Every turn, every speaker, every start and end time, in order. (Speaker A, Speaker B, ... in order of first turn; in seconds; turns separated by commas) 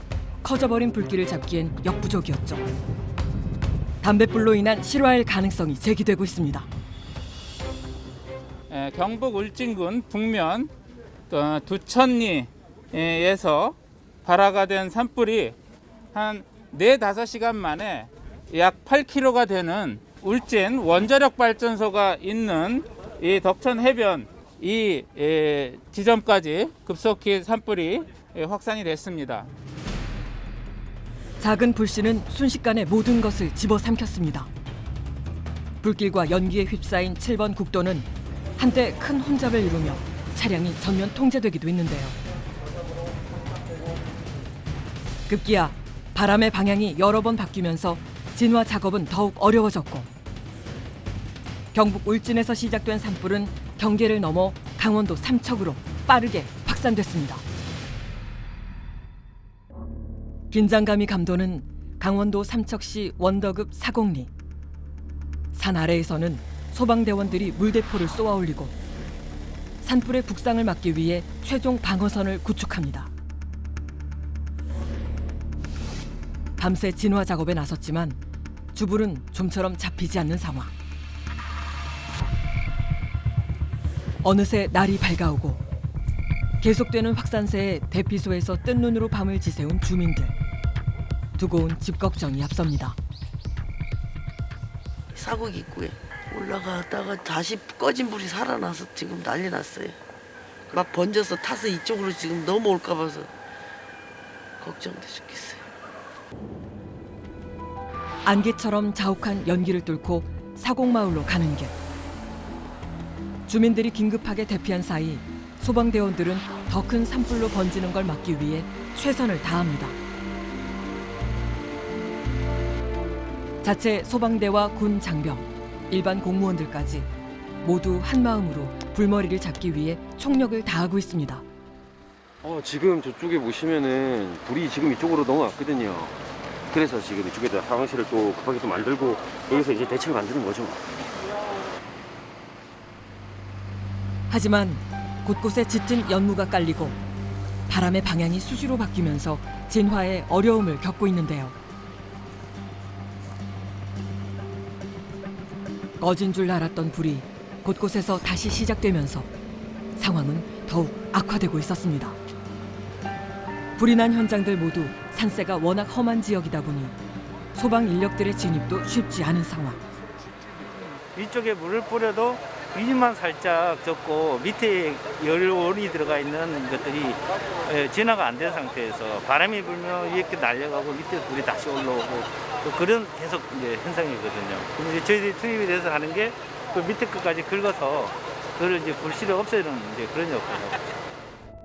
Speaker A: 0.4-2.7, Speaker A: 4.0-6.7, Speaker B: 8.7-10.7, Speaker B: 11.3-15.6, Speaker B: 16.1-29.5, Speaker A: 31.4-34.5, Speaker A: 35.8-42.2, Speaker A: 45.3-50.1, Speaker A: 51.7-57.5, Speaker A: 60.5-64.3, Speaker A: 65.5-68.8, Speaker A: 69.8-73.1, Speaker A: 76.6-78.2, Speaker A: 78.7-80.7, Speaker A: 84.2-85.6, Speaker A: 86.6-90.3, Speaker A: 91.4-93.0, Speaker C: 95.1-100.0, Speaker C: 100.7-103.3, Speaker C: 104.6-105.7, Speaker A: 108.2-111.8, Speaker A: 113.5-120.0, Speaker A: 123.6-127.1, Speaker A: 127.6-131.4, Speaker D: 132.4-136.2, Speaker D: 136.7-140.8, Speaker A: 144.3-147.0, Speaker A: 147.7-151.6, Speaker A: 156.0-159.3, Speaker A: 160.0-162.2, Speaker A: 163.8-167.0, Speaker A: 167.6-169.8, Speaker E: 171.2-190.9